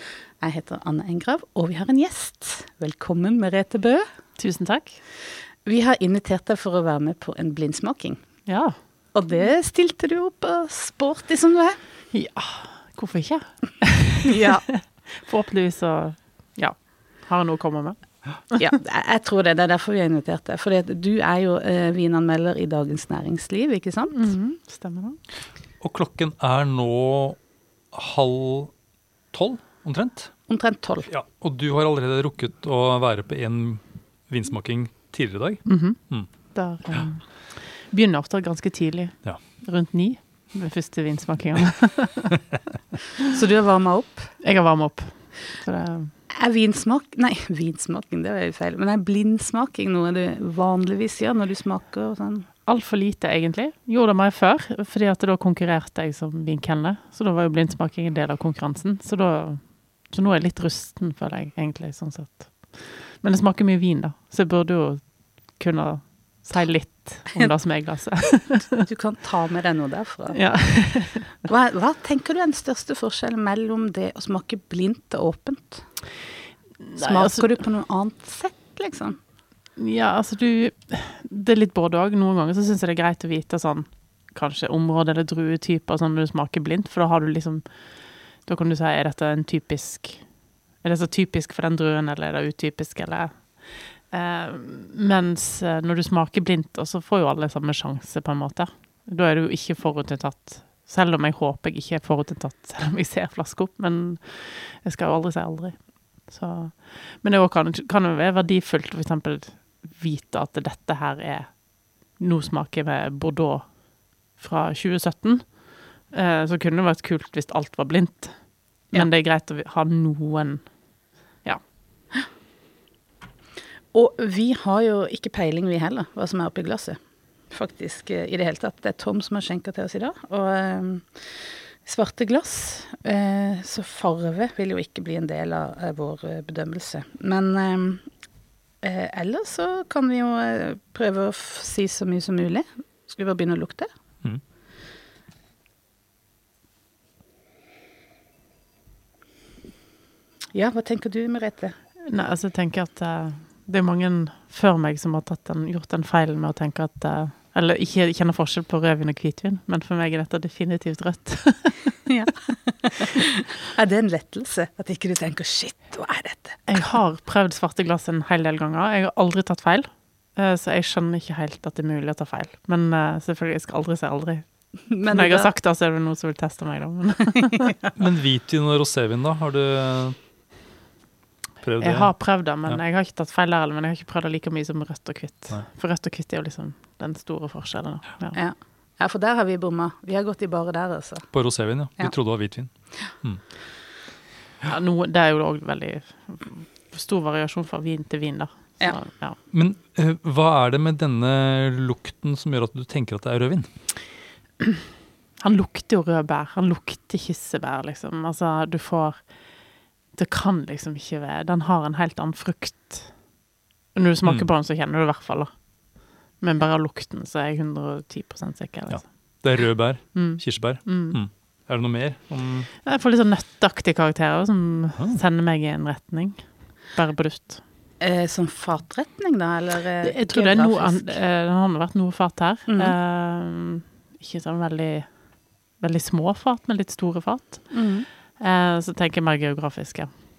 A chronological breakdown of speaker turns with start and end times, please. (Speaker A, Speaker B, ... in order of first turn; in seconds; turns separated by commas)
Speaker A: 0.4-4.0, Speaker B: 4.4-5.0, Speaker A: 5.6-8.2, Speaker B: 8.5-8.7, Speaker A: 9.1-11.8, Speaker B: 12.1-18.7, Speaker A: 14.3-14.6, Speaker A: 18.6-24.2, Speaker B: 24.1-25.2, Speaker C: 25.8-27.4, Speaker C: 27.9-28.7, Speaker C: 29.3-30.3, Speaker A: 30.5-31.1, Speaker C: 31.1-36.3, Speaker B: 35.6-36.0, Speaker B: 36.5-42.5, Speaker A: 43.2-44.3, Speaker B: 44.4-46.1, Speaker A: 46.3-52.5, Speaker B: 52.6-68.8, Speaker A: 68.7-70.4, Speaker B: 70.3-71.3, Speaker A: 71.4-75.8, Speaker B: 76.8-77.5, Speaker A: 77.0-79.2, Speaker B: 79.8-90.2, Speaker B: 90.8-111.6, Speaker B: 112.2-113.7, Speaker B: 114.3-115.6, Speaker B: 116.1-120.6, Speaker A: 123.9-127.0, Speaker A: 127.5-131.3, Speaker A: 131.8-138.0, Speaker A: 138.8-143.9, Speaker A: 150.5-151.7, Speaker B: 152.1-162.0, Speaker A: 162.1-166.7, Speaker B: 166.7-174.5, Speaker A: 174.9-175.5, Speaker B: 175.0-177.7, Speaker C: 177.9-180.1, Speaker C: 181.6-182.1, Speaker B: 181.8-188.4, Speaker A: 188.3-191.3, Speaker C: 191.3-193.4, Speaker B: 194.6-199.4, Speaker C: 199.5-203.7, Speaker B: 205.4-209.2, Speaker B: 210.1-213.1, Speaker B: 213.9-215.5, Speaker B: 216.4-219.1, Speaker C: 218.9-222.7, Speaker B: 220.1-221.2, Speaker B: 222.8-227.6, Speaker A: 228.0-231.2, Speaker B: 230.0-235.1, Speaker A: 232.7-232.9, Speaker B: 235.8-237.8, Speaker A: 237.7-238.1, Speaker B: 238.4-240.1